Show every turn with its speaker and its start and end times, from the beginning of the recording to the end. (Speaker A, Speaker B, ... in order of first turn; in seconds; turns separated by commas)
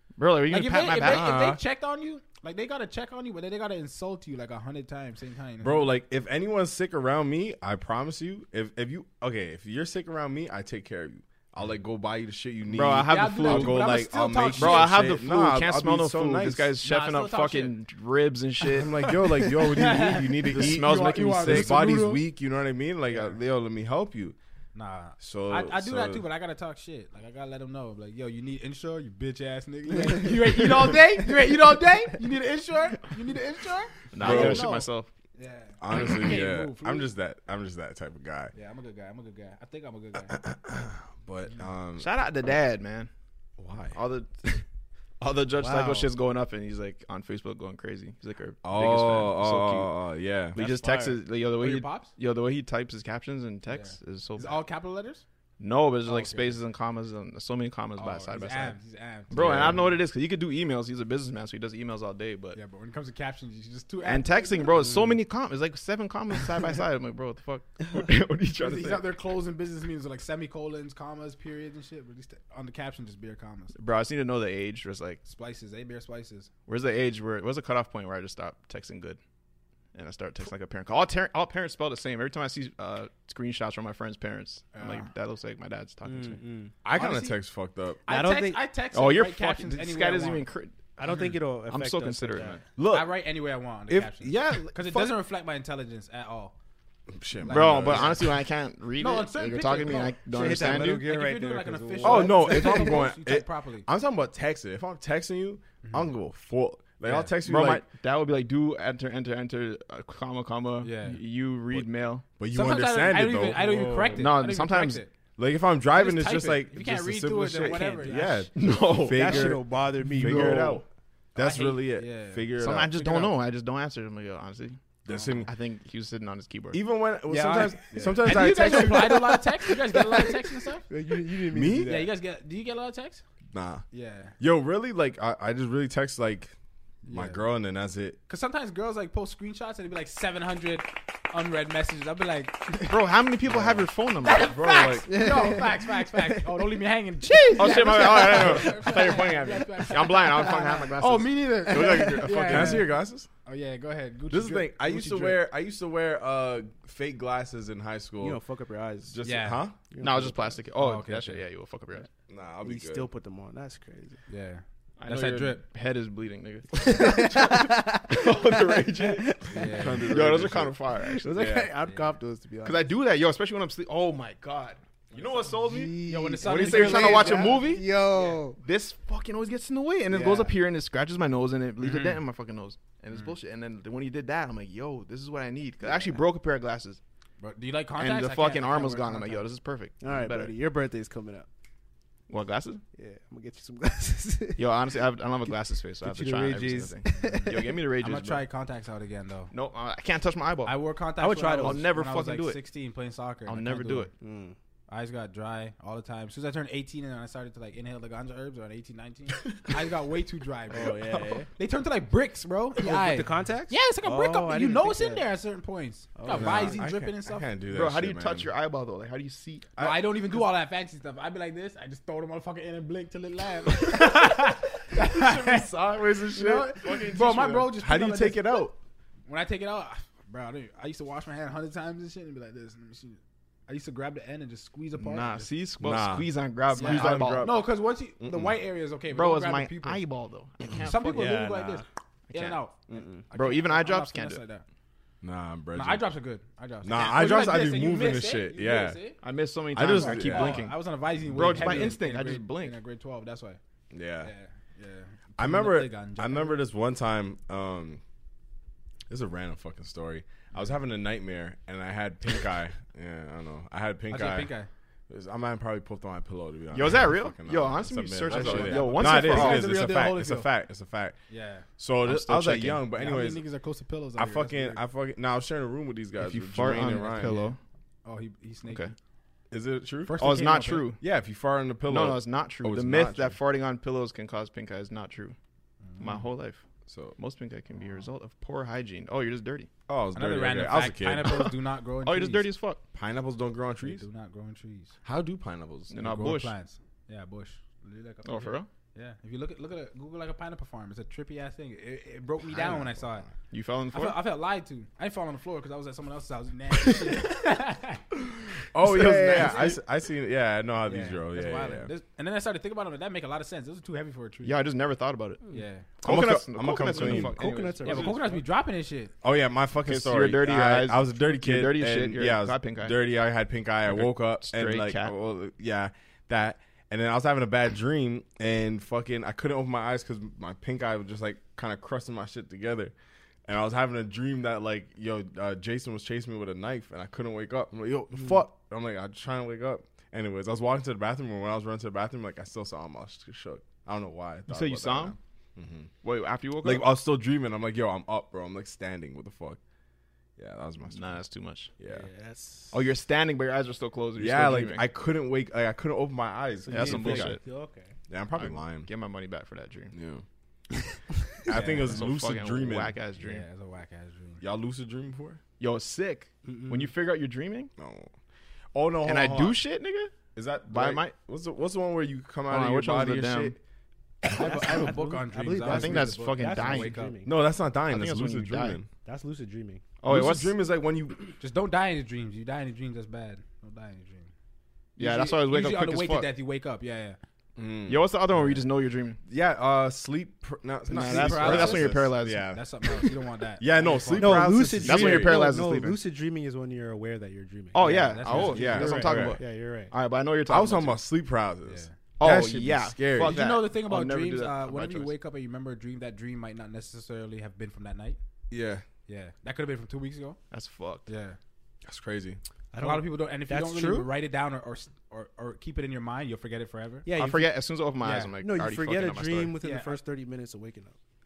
Speaker A: 0.2-1.3, Speaker B: 0.5-5.9, Speaker C: 0.9-1.6, Speaker C: 5.6-16.7, Speaker A: 12.7-14.0, Speaker B: 13.1-14.9, Speaker A: 14.6-18.9, Speaker B: 16.8-17.7, Speaker C: 18.7-24.4, Speaker B: 19.1-22.2, Speaker A: 20.4-21.7, Speaker B: 24.7-37.1, Speaker C: 25.2-26.2, Speaker A: 34.1-35.1, Speaker C: 34.1-34.7, Speaker C: 35.8-38.5, Speaker B: 38.5-40.4, Speaker C: 40.3-42.1, Speaker A: 42.0-43.1, Speaker C: 43.6-44.0, Speaker A: 43.9-44.6, Speaker A: 45.2-49.9, Speaker D: 45.6-46.1, Speaker C: 48.6-50.7, Speaker A: 50.5-54.6, Speaker D: 50.5-51.2, Speaker B: 51.6-52.1, Speaker B: 53.7-55.2, Speaker A: 55.6-58.8, Speaker B: 56.0-56.6, Speaker B: 58.0-59.9, Speaker A: 59.3-62.6, Speaker C: 59.3-59.9, Speaker B: 62.5-64.8, Speaker A: 64.0-69.1, Speaker D: 64.8-65.2, Speaker B: 68.6-73.8, Speaker A: 73.8-75.2, Speaker B: 75.2-76.5, Speaker A: 76.7-79.2, Speaker A: 79.9-86.4, Speaker B: 84.7-85.1, Speaker D: 86.0-86.7, Speaker C: 86.8-88.0, Speaker B: 86.9-87.4, Speaker B: 88.0-90.4, Speaker D: 88.1-88.6, Speaker A: 88.9-91.0, Speaker D: 91.0-92.6, Speaker A: 91.7-92.6, Speaker C: 92.8-93.1, Speaker B: 92.9-96.5, Speaker C: 93.9-95.1, Speaker C: 97.1-98.3, Speaker B: 97.4-98.2, Speaker A: 97.5-101.0, Speaker B: 99.0-103.8, Speaker D: 100.3-102.9, Speaker C: 102.0-107.8, Speaker B: 107.0-107.3, Speaker A: 107.4-112.2, Speaker B: 110.8-111.2, Speaker C: 111.7-114.3, Speaker B: 112.5-115.1, Speaker A: 114.2-115.0, Speaker C: 115.4-123.1, Speaker B: 115.9-118.4, Speaker D: 118.0-118.5, Speaker A: 118.5-119.6, Speaker D: 119.0-120.8, Speaker A: 120.2-120.8, Speaker B: 121.3-123.3, Speaker A: 122.6-124.8, Speaker C: 125.0-125.5, Speaker B: 125.1-125.4, Speaker A: 125.5-126.8, Speaker C: 126.7-129.4, Speaker D: 127.3-129.3, Speaker B: 127.9-130.8, Speaker D: 130.9-132.1, Speaker C: 131.5-132.1, Speaker B: 131.8-133.2, Speaker C: 133.5-133.8, Speaker B: 133.9-134.3, Speaker C: 134.4-136.5, Speaker B: 137.0-137.4, Speaker C: 137.1-138.2, Speaker B: 138.3-142.9, Speaker A: 142.9-144.5, Speaker B: 144.2-155.4, Speaker C: 144.3-145.3, Speaker D: 145.1-146.5, Speaker A: 147.6-152.8, Speaker C: 148.2-148.7, Speaker C: 151.7-153.3, Speaker C: 154.3-158.4, Speaker D: 158.2-159.1, Speaker C: 159.1-159.8, Speaker B: 159.2-159.6, Speaker D: 159.9-160.6, Speaker A: 160.0-162.1, Speaker B: 160.7-161.4, Speaker C: 162.3-163.1, Speaker D: 162.6-164.2, Speaker B: 164.3-165.6, Speaker A: 165.0-169.4, Speaker D: 166.8-170.1, Speaker B: 169.5-170.1, Speaker C: 169.5-170.7, Speaker A: 170.1-171.3, Speaker D: 171.0-172.9, Speaker C: 171.3-171.7, Speaker A: 172.6-178.0, Speaker D: 175.5-178.6, Speaker B: 176.0-177.6, Speaker A: 178.6-187.0, Speaker D: 180.1-180.5, Speaker B: 181.8-182.1, Speaker B: 187.4-189.4, Speaker A: 188.0-190.5, Speaker D: 190.0-191.5, Speaker A: 192.3-192.8, Speaker D: 192.9-194.7, Speaker A: 194.6-198.4, Speaker D: 196.0-197.6, Speaker B: 197.1-199.5, Speaker A: 199.5-200.7, Speaker B: 200.7-204.1, Speaker D: 201.2-201.9, Speaker A: 201.6-202.6, Speaker A: 203.5-204.1, Speaker D: 204.2-204.6, Speaker B: 204.9-211.0, Speaker D: 210.7-211.5, Speaker B: 211.5-217.5, Speaker D: 212.8-215.2, Speaker D: 216.2-216.8, Speaker C: 216.3-218.5, Speaker A: 217.7-219.7, Speaker C: 219.8-220.4, Speaker B: 219.8-225.7, Speaker C: 224.9-228.8, Speaker B: 226.3-228.7, Speaker A: 226.9-227.4, Speaker B: 229.3-235.5, Speaker A: 235.0-237.5, Speaker C: 235.8-238.6, Speaker B: 236.7-240.0, Speaker A: 239.1-241.3, Speaker B: 240.8-244.6, Speaker D: 241.0-241.8, Speaker A: 242.3-242.6, Speaker D: 242.9-243.2, Speaker A: 243.3-244.4, Speaker C: 245.2-246.1, Speaker B: 245.7-249.2, Speaker C: 246.8-249.0, Speaker A: 249.2-252.7, Speaker C: 249.7-250.7, Speaker B: 249.9-253.6, Speaker C: 251.3-251.9, Speaker C: 253.9-254.3, Speaker B: 254.2-256.6, Speaker C: 255.4-258.0, Speaker C: 259.1-264.5, Speaker B: 264.1-264.7, Speaker C: 265.1-271.2, Speaker A: 266.7-269.7, Speaker B: 268.3-270.5, Speaker B: 271.3-271.6, Speaker C: 271.8-273.4, Speaker A: 272.0-272.8, Speaker B: 272.9-274.8, Speaker C: 274.2-277.4, Speaker A: 276.2-277.6, Speaker B: 276.6-277.5, Speaker B: 278.0-278.9, Speaker A: 278.7-278.9, Speaker C: 279.5-280.3, Speaker B: 280.1-280.8, Speaker A: 280.2-281.0, Speaker C: 281.0-283.4, Speaker A: 281.9-285.4, Speaker B: 285.8-286.2, Speaker A: 286.0-286.6, Speaker C: 286.9-287.1, Speaker A: 287.2-289.7, Speaker C: 289.9-291.5, Speaker B: 290.1-292.4, Speaker A: 292.0-292.8, Speaker C: 292.9-294.1, Speaker B: 293.8-294.9, Speaker C: 295.0-296.2, Speaker A: 295.9-296.5, Speaker B: 296.0-303.3, Speaker A: 298.2-298.7, Speaker C: 302.5-303.3, Speaker A: 303.5-304.2, Speaker B: 303.9-308.0, Speaker C: 308.7-311.9, Speaker A: 308.8-309.8, Speaker B: 309.3-309.7, Speaker B: 310.9-314.6, Speaker A: 314.4-315.4, Speaker B: 315.5-315.9, Speaker A: 316.0-318.1, Speaker C: 316.0-317.4, Speaker D: 316.9-318.4, Speaker B: 317.8-319.1, Speaker C: 319.2-332.9, Speaker A: 319.8-322.9, Speaker A: 323.9-325.1, Speaker C: 333.4-345.9, Speaker A: 344.5-345.1, Speaker A: 346.0-346.9, Speaker C: 346.6-349.6, Speaker C: 350.4-351.2, Speaker A: 350.9-351.7, Speaker C: 351.8-352.1, Speaker D: 351.9-352.8, Speaker A: 352.7-354.9, Speaker C: 354.2-357.4, Speaker D: 356.6-357.9, Speaker A: 356.7-357.4, Speaker C: 358.1-358.9, Speaker A: 358.3-359.9, Speaker C: 359.9-360.2, Speaker C: 361.4-362.9, Speaker B: 361.5-362.0, Speaker A: 361.8-363.4, Speaker B: 363.2-364.4, Speaker C: 364.4-365.4, Speaker A: 365.6-367.7, Speaker D: 366.4-366.9, Speaker C: 367.8-368.1, Speaker C: 368.7-369.6, Speaker A: 369.0-370.1, Speaker C: 370.3-373.6, Speaker A: 370.7-371.1, Speaker A: 372.5-373.5, Speaker B: 374.3-377.1, Speaker D: 374.4-377.3, Speaker A: 375.6-377.0, Speaker C: 377.2-378.9, Speaker A: 377.9-378.8, Speaker D: 379.0-379.8, Speaker A: 380.0-380.5, Speaker C: 380.1-381.3, Speaker B: 381.4-384.3, Speaker A: 385.0-386.3, Speaker B: 385.0-387.2, Speaker C: 387.6-388.1, Speaker A: 387.9-389.2, Speaker C: 389.3-395.5, Speaker A: 390.9-392.5, Speaker B: 390.9-394.7, Speaker D: 394.2-399.9, Speaker A: 394.8-396.0, Speaker A: 397.7-401.0, Speaker B: 397.8-398.9, Speaker C: 398.5-399.4, Speaker C: 400.5-403.4, Speaker B: 401.6-401.9, Speaker A: 402.2-405.1, Speaker B: 403.2-408.2, Speaker C: 408.5-408.8, Speaker B: 409.1-410.4, Speaker A: 410.5-411.1, Speaker B: 411.1-411.4, Speaker C: 411.8-412.4, Speaker D: 412.7-414.1, Speaker B: 412.8-417.1, Speaker D: 417.0-417.5, Speaker A: 417.2-419.5, Speaker B: 418.0-418.3, Speaker D: 418.4-420.9, Speaker B: 419.6-420.0